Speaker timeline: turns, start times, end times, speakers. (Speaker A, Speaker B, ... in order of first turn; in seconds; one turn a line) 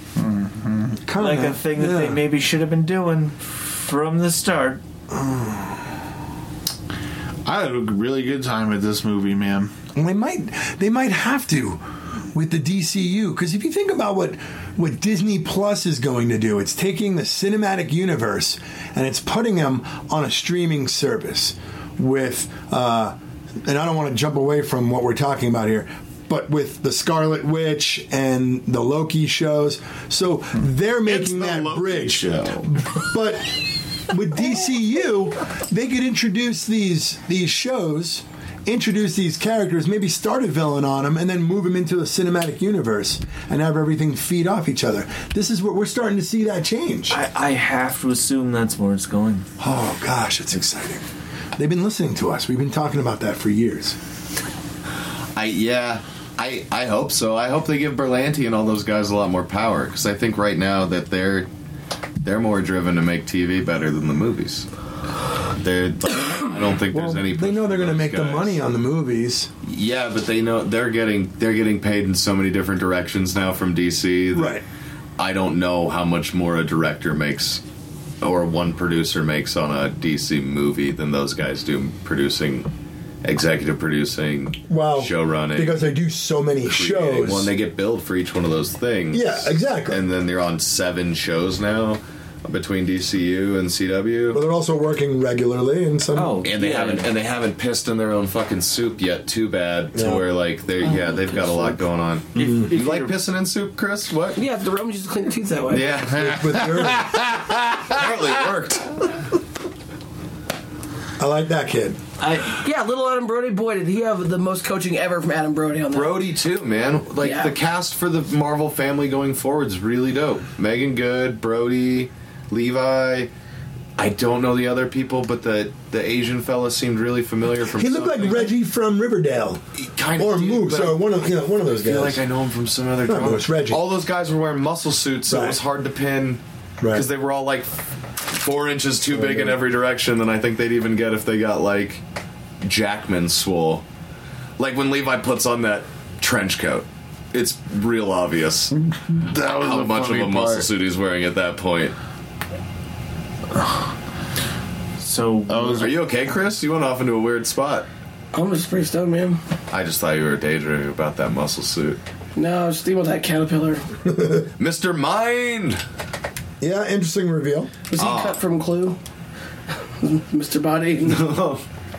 Speaker A: 0.2-1.0
Speaker B: 1.1-2.2
Speaker C: 1.2-4.8
Speaker B: 5.1-5.8
Speaker A: 7.5-9.7
Speaker B: 9.9-11.8
Speaker B: 12.3-33.5
Speaker A: 31.1-32.7
Speaker B: 34.1-47.2
Speaker C: 47.1-49.5
Speaker B: 49.6-51.0
Speaker B: 51.6-54.0
Speaker D: 55.4-61.5
Speaker D: 62.2-64.7
Speaker D: 65.5-68.6
Speaker B: 66.9-69.5
Speaker D: 69.6-74.6
Speaker B: 74.3-74.6
Speaker D: 75.2-77.6
Speaker D: 78.2-82.7
Speaker D: 83.2-85.9
Speaker B: 84.7-87.5
Speaker D: 86.6-94.4
Speaker B: 89.1-90.0
Speaker B: 94.3-96.5
Speaker C: 96.2-97.1
Speaker D: 96.4-104.4
Speaker B: 99.9-100.3
Speaker C: 102.3-103.2
Speaker B: 102.4-102.7
Speaker E: 104.4-106.0
Speaker D: 105.7-106.7
Speaker A: 106.1-108.0
Speaker B: 106.1-107.2
Speaker D: 107.9-109.2
Speaker B: 111.2-112.0
Speaker C: 112.2-112.6
Speaker E: 112.5-116.3
Speaker D: 115.9-123.3
Speaker E: 117.2-117.5
Speaker D: 124.0-128.5
Speaker B: 127.8-129.6
Speaker D: 129.8-131.1
Speaker B: 130.2-132.2
Speaker D: 131.8-142.0
Speaker B: 133.1-133.8
Speaker B: 135.3-135.6
Speaker B: 136.8-137.1
Speaker B: 139.1-139.6
Speaker D: 142.6-143.8
Speaker D: 144.6-148.7
Speaker A: 148.9-150.7
Speaker D: 149.3-151.9
Speaker C: 155.0-155.9
Speaker A: 155.5-156.0
Speaker D: 155.8-157.9
Speaker E: 158.3-159.4
Speaker D: 159.7-162.0
Speaker E: 162.3-163.9
Speaker B: 164.1-164.5
Speaker D: 164.6-165.8
Speaker B: 166.6-167.7
Speaker E: 167.9-169.0
Speaker D: 168.0-168.4
Speaker E: 170.0-171.3
Speaker D: 171.1-171.6